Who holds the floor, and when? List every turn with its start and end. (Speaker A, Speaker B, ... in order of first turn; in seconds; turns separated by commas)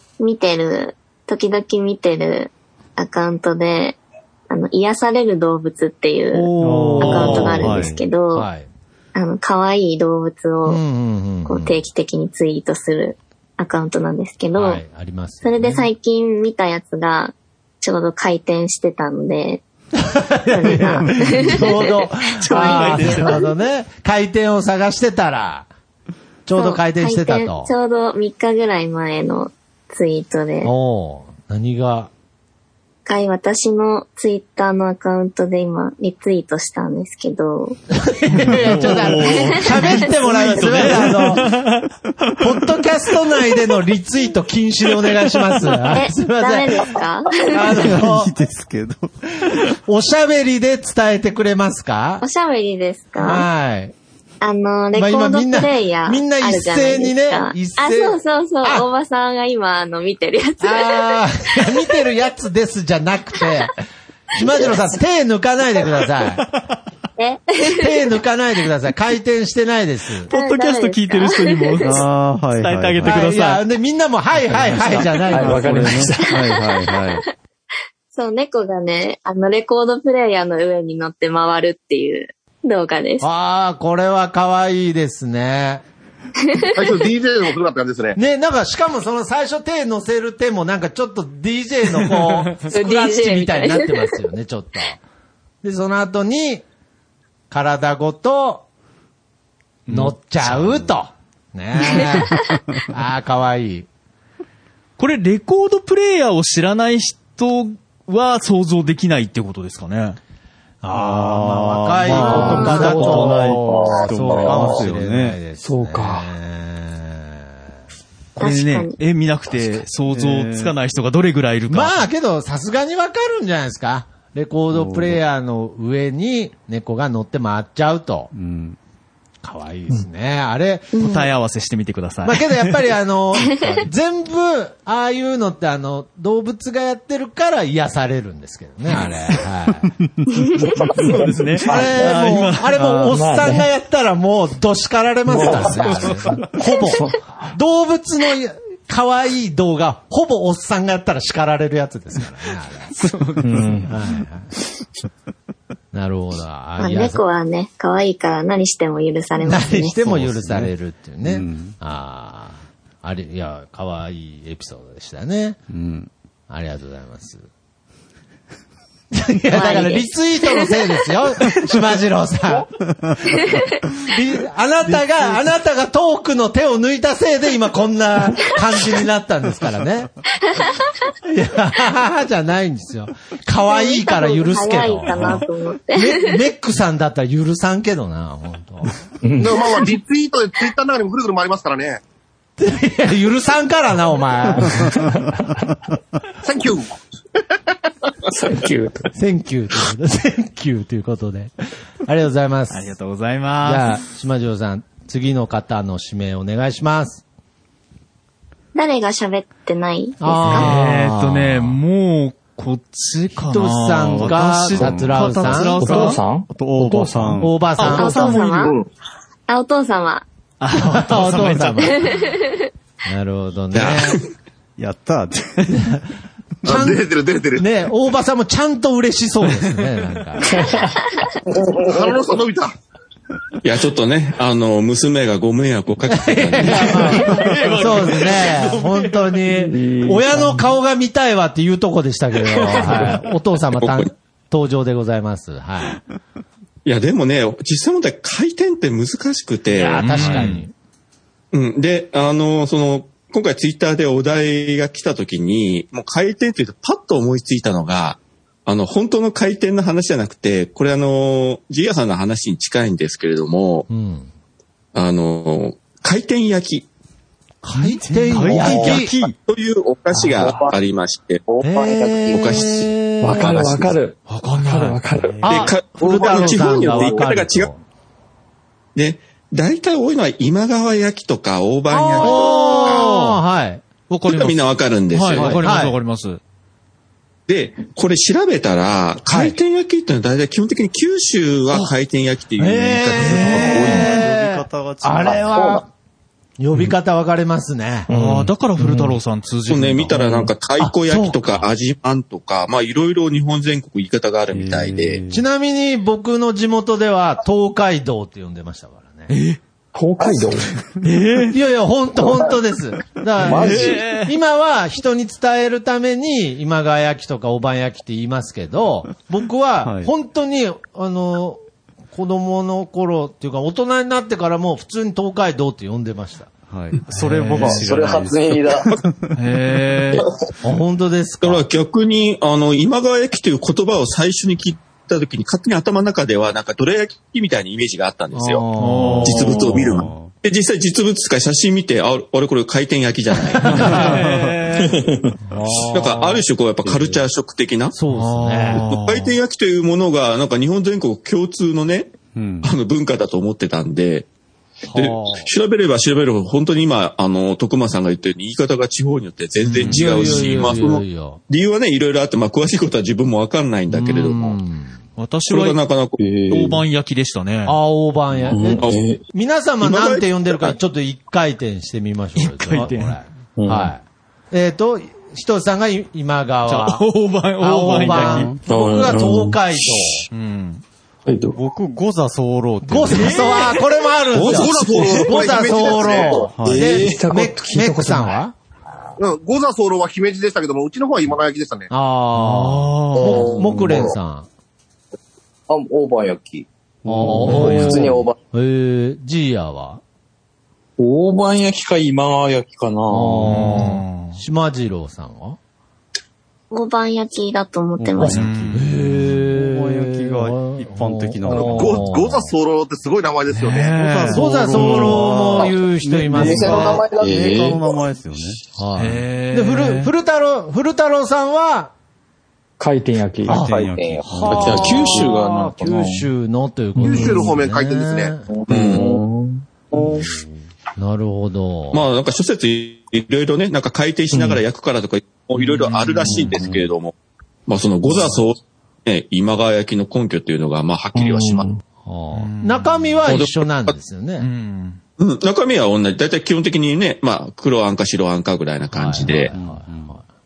Speaker A: 0.2-4.0, Speaker A: 4.5-8.5, Speaker B: 6.3-8.7, Speaker C: 6.5-8.0, Speaker D: 6.7-7.7, Speaker A: 9.1-10.8, Speaker B: 10.7-11.8, Speaker A: 11.4-14.8, Speaker B: 14.5-15.9, Speaker A: 15.4-19.6, Speaker B: 20.1-25.7, Speaker A: 20.5-23.4, Speaker D: 22.4-23.4, Speaker B: 26.4-27.7, Speaker A: 26.6-30.7, Speaker B: 30.6-32.1, Speaker A: 33.0-37.8, Speaker B: 38.1-41.5, Speaker D: 38.3-41.9, Speaker A: 39.2-40.1, Speaker B: 42.4-48.3, Speaker A: 45.9-47.7, Speaker C: 47.8-49.1, Speaker B: 49.7-52.2, Speaker A: 52.2-53.5, Speaker B: 53.2-53.9, Speaker A: 54.4-62.0, Speaker B: 54.9-58.9, Speaker B: 60.6-63.7, Speaker B: 64.3-66.5, Speaker A: 64.4-64.8, Speaker A: 67.2-68.0, Speaker B: 67.7-70.3, Speaker A: 70.3-72.0, Speaker D: 70.3-73.6, Speaker C: 71.8-73.2, Speaker B: 73.0-76.0, Speaker E: 74.6-76.5, Speaker C: 74.7-77.2, Speaker A: 76.8-77.2, Speaker A: 78.1-83.3, Speaker B: 83.2-85.8, Speaker A: 86.4-87.0, Speaker F: 86.7-88.2, Speaker B: 88.2-95.0, Speaker A: 92.6-94.2, Speaker B: 95.6-96.6, Speaker B: 97.5-98.6, Speaker D: 99.9-100.7, Speaker B: 99.9-102.3, Speaker A: 101.8-102.5, Speaker B: 102.9-103.9, Speaker D: 105.0-110.2, Speaker B: 110.8-117.5, Speaker C: 110.9-115.4, Speaker E: 112.2-114.0, Speaker G: 114.3-114.6, Speaker E: 115.6-116.3, Speaker D: 118.4-122.0, Speaker A: 118.4-119.0, Speaker C: 120.0-120.7, Speaker B: 121.7-128.3, Speaker C: 124.7-125.2, Speaker C: 128.3-128.8, Speaker B: 129.4-130.9, Speaker A: 130.9-131.3, Speaker D: 131.0-132.8, Speaker B: 132.2-139.9, Speaker A: 133.4-133.9, Speaker D: 140.9-142.8, Speaker E: 140.9-143.7, Speaker B: 141.6-152.9, Speaker E: 145.3-147.2, Speaker D: 153.0-153.8, Speaker E: 153.4-153.9, Speaker B: 153.9-154.5, Speaker B: 155.9-157.2, Speaker A: 156.8-160.0, Speaker B: 159.4-165.6, Speaker C: 159.9-161.8, Speaker C: 165.7-166.1, Speaker B: 166.5-167.4, Speaker B: 169.1-172.7, Speaker A: 169.5-171.1, Speaker A: 173.3-173.7, Speaker B: 174.1-180.1, Speaker C: 174.9-175.5, Speaker A: 180.4-180.9, Speaker B: 181.3-189.0, Speaker A: 183.7-186.4, Speaker E: 189.2-189.7, Speaker F: 189.4-192.0, Speaker B: 192.6-195.1, Speaker F: 196.4-197.0, Speaker E: 198.3-199.1, Speaker B: 199.1-201.5, Speaker B: 202.0-202.9, Speaker D: 202.7-204.0, Speaker B: 203.6-207.2, Speaker A: 208.7-210.8, Speaker B: 210.2-211.7, Speaker D: 210.4-216.2, Speaker B: 213.5-215.8, Speaker C: 214.0-217.8, Speaker E: 215.8-217.4, Speaker B: 217.4-218.7, Speaker D: 217.8-218.4, Speaker A: 217.8-218.8, Speaker A: 219.5-220.2, Speaker D: 220.6-222.3, Speaker B: 220.7-222.0, Speaker A: 221.8-222.7, Speaker B: 223.1-224.2, Speaker H: 223.7-224.3, Speaker C: 224.8-225.8, Speaker B: 226.6-227.0, Speaker F: 226.7-227.7, Speaker B: 227.6-230.6, Speaker G: 231.6-232.1, Speaker F: 231.8-232.7, Speaker H: 233.6-237.2, Speaker B: 236.1-246.0, Speaker D: 236.6-239.4, Speaker C: 237.3-237.6, Speaker E: 239.5-240.7, Speaker H: 243.7-244.1, Speaker H: 246.8-250.2, Speaker B: 249.7-250.7, Speaker D: 250.0-250.6, Speaker H: 251.5-263.9, Speaker B: 263.9-264.3, Speaker H: 264.9-266.9, Speaker B: 267.6-269.1, Speaker D: 267.7-269.3, Speaker C: 268.5-268.9, Speaker H: 269.3-271.4, Speaker G: 270.3-270.8, Speaker G: 271.5-272.7, Speaker B: 271.6-273.9, Speaker H: 272.3-272.8, Speaker E: 273.2-275.5, Speaker H: 273.4-273.7, Speaker D: 274.3-275.8, Speaker H: 275.4-277.7, Speaker B: 275.5-277.8, Speaker H: 278.9-283.1, Speaker B: 281.9-283.8, Speaker D: 282.3-283.4, Speaker D: 284.1-286.4, Speaker H: 284.3-285.6, Speaker B: 285.3-285.9, Speaker H: 287.5-294.1, Speaker B: 289.2-289.5, Speaker B: 292.6-295.9, Speaker C: 293.2-295.5, Speaker D: 293.2-293.8, Speaker G: 295.2-295.8, Speaker B: 296.6-298.1, Speaker E: 298.1-298.5, Speaker D: 298.1-300.4, Speaker H: 299.7-305.2, Speaker B: 300.8-301.6, Speaker C: 304.5-305.4, Speaker B: 305.3-309.3, Speaker D: 309.3-309.6, Speaker E: 309.9-310.7, Speaker D: 311.0-311.6, Speaker B: 311.5-321.6, Speaker D: 313.4-314.3, Speaker E: 313.4-313.9, Speaker G: 313.5-313.8, Speaker C: 319.8-320.1, Speaker B: 322.1-326.5, Speaker C: 326.7-328.7, Speaker B: 327.2-327.8, Speaker G: 327.6-328.9, Speaker D: 329.4-330.3, Speaker B: 330.6-331.6, Speaker H: 331.4-338.6, Speaker B: 338.3-339.7, Speaker D: 338.8-339.8, Speaker H: 339.2-343.8, Speaker C: 339.5-340.3, Speaker B: 343.6-344.1, Speaker D: 343.6-345.0, Speaker C: 344.0-344.2, Speaker I: 344.8-345.3, Speaker B: 345.5-346.4, Speaker H: 345.9-347.9, Speaker B: 347.9-348.9, Speaker D: 348.1-349.3, Speaker H: 348.9-354.3, Speaker C: 352.3-352.7, Speaker B: 354.9-355.4, Speaker H: 354.9-364.6, Speaker D: 359.6-360.7, Speaker B: 359.9-361.4, Speaker B: 363.9-365.0, Speaker D: 365.2-365.8, Speaker H: 365.5-366.2, Speaker I: 366.2-366.7, Speaker D: 366.5-367.8, Speaker B: 367.6-377.0, Speaker I: 368.5-369.2, Speaker H: 369.8-370.7, Speaker D: 372.4-373.2, Speaker I: 373.6-373.9, Speaker D: 376.6-378.5, Speaker B: 377.6-380.3, Speaker C: 377.9-378.6, Speaker I: 378.6-379.6, Speaker D: 380.3-380.8, Speaker C: 381.5-383.7, Speaker B: 382.8-388.5, Speaker D: 383.3-383.8, Speaker I: 384.3-385.3, Speaker F: 384.5-386.5, Speaker G: 386.0-386.5, Speaker C: 386.5-387.0, Speaker I: 386.6-387.2, Speaker E: 386.7-388.4, Speaker F: 389.2-391.9, Speaker B: 391.9-394.5, Speaker D: 392.3-393.6, Speaker G: 393.1-394.1, Speaker G: 395.7-396.7, Speaker C: 397.0-398.2, Speaker B: 397.1-400.0, Speaker G: 397.4-398.4, Speaker D: 397.6-398.0, Speaker I: 401.0-403.7, Speaker B: 403.1-405.6, Speaker D: 403.4-404.4, Speaker A: 406.7-408.4, Speaker C: 408.0-412.2, Speaker D: 408.2-408.8, Speaker B: 408.7-412.5, Speaker F: 411.6-414.0, Speaker D: 413.5-414.8, Speaker C: 414.0-418.6, Speaker B: 414.3-417.0, Speaker G: 416.3-417.8, Speaker I: 417.2-417.8, Speaker B: 418.8-421.9, Speaker D: 419.0-420.1, Speaker E: 422.8-423.6, Speaker C: 423.4-425.2, Speaker B: 423.5-428.5, Speaker G: 423.6-424.3, Speaker I: 424.5-426.3, Speaker F: 427.0-428.3, Speaker G: 428.5-429.2, Speaker H: 428.7-429.1, Speaker I: 428.7-429.4, Speaker E: 428.9-429.2, Speaker B: 430.9-432.0, Speaker H: 431.9-437.1, Speaker D: 435.6-436.5, Speaker C: 436.4-436.8, Speaker H: 437.7-441.7, Speaker I: 441.1-441.8, Speaker B: 442.0-444.5, Speaker D: 442.3-443.2, Speaker H: 443.2-443.9, Speaker D: 444.4-445.0, Speaker H: 445.2-449.5, Speaker B: 448.9-450.2, Speaker C: 449.2-450.1